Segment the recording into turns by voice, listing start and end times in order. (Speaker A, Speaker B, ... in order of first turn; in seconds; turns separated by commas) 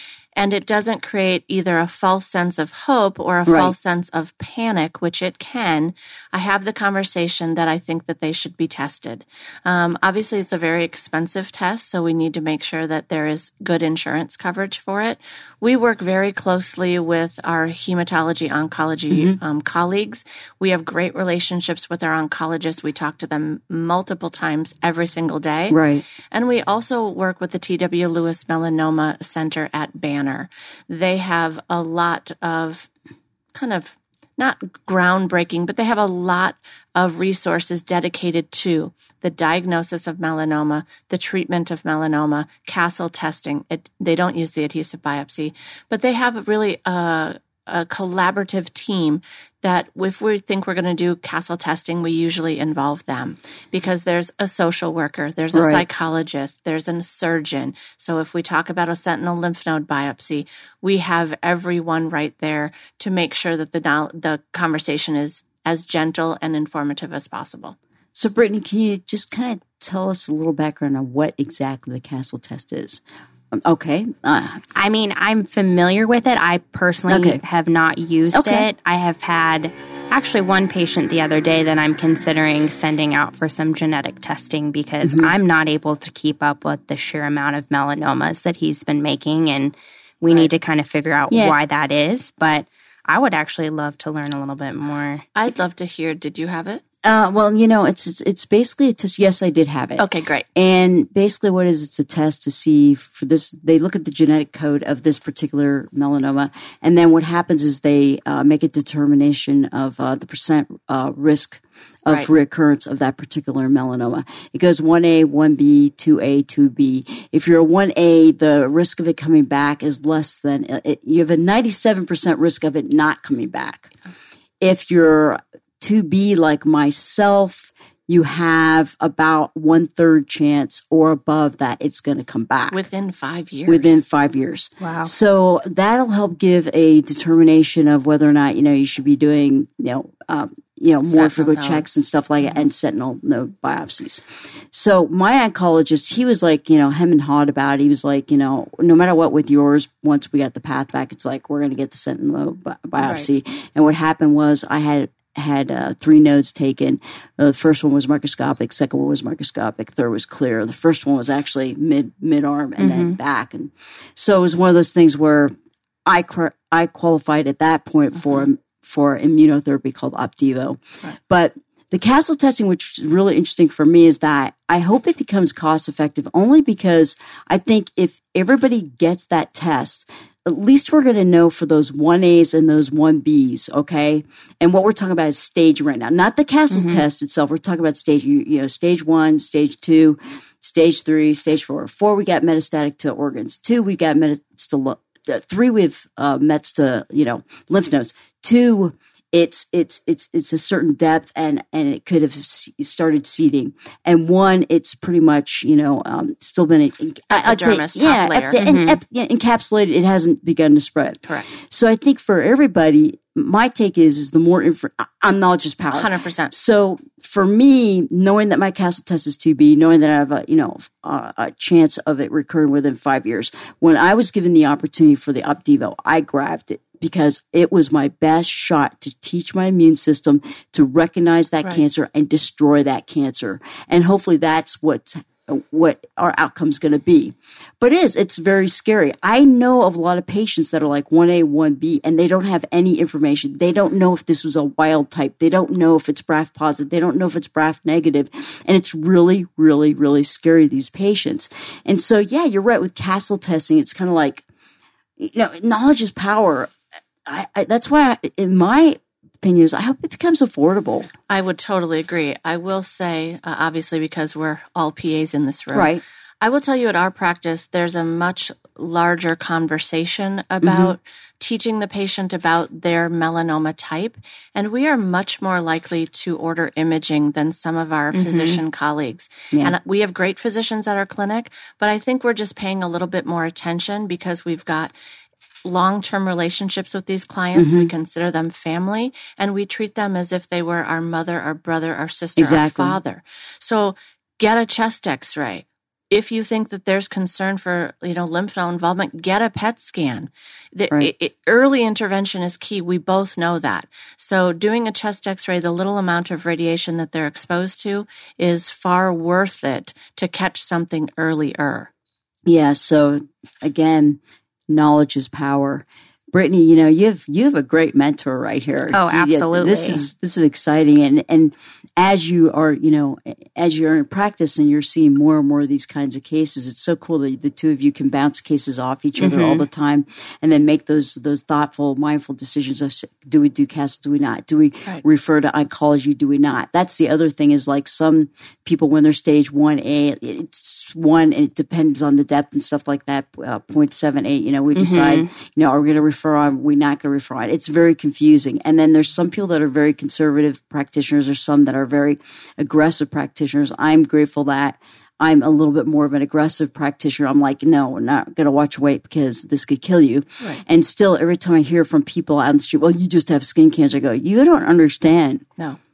Speaker A: 0.3-25.8, Speaker B: 3.5-3.7, Speaker B: 19.1-19.4, Speaker B: 25.7-26.0, Speaker A: 26.3-32.9, Speaker A: 33.5-67.8, Speaker B: 55.5-55.8, Speaker B: 68.1-73.0, Speaker B: 73.5-74.6, Speaker C: 74.7-95.2, Speaker B: 77.1-77.4, Speaker B: 78.3-78.7, Speaker B: 85.0-85.3, Speaker A: 95.3-96.8, Speaker B: 97.0-123.9, Speaker A: 100.0-100.5, Speaker B: 124.6-132.8, Speaker A: 132.7-134.0, Speaker B: 133.7-165.5, Speaker C: 134.8-135.1, Speaker A: 141.1-141.8, Speaker A: 153.0-153.3, Speaker C: 162.8-163.2, Speaker B: 166.1-254.4, Speaker C: 186.7-187.0, Speaker A: 207.3-208.6, Speaker C: 208.6-209.0, Speaker A: 215.9-216.5, Speaker B: 255.2-256.7, Speaker B: 257.2-261.1, Speaker A: 261.3-284.9, Speaker B: 265.7-266.0, Speaker B: 270.6-270.9, Speaker C: 278.1-278.6, Speaker A: 285.6-311.9, Speaker B: 287.5-287.9, Speaker B: 292.4-293.0, Speaker B: 312.4-365.4, Speaker C: 318.9-320.0, Speaker C: 329.2-329.6, Speaker C: 344.7-345.3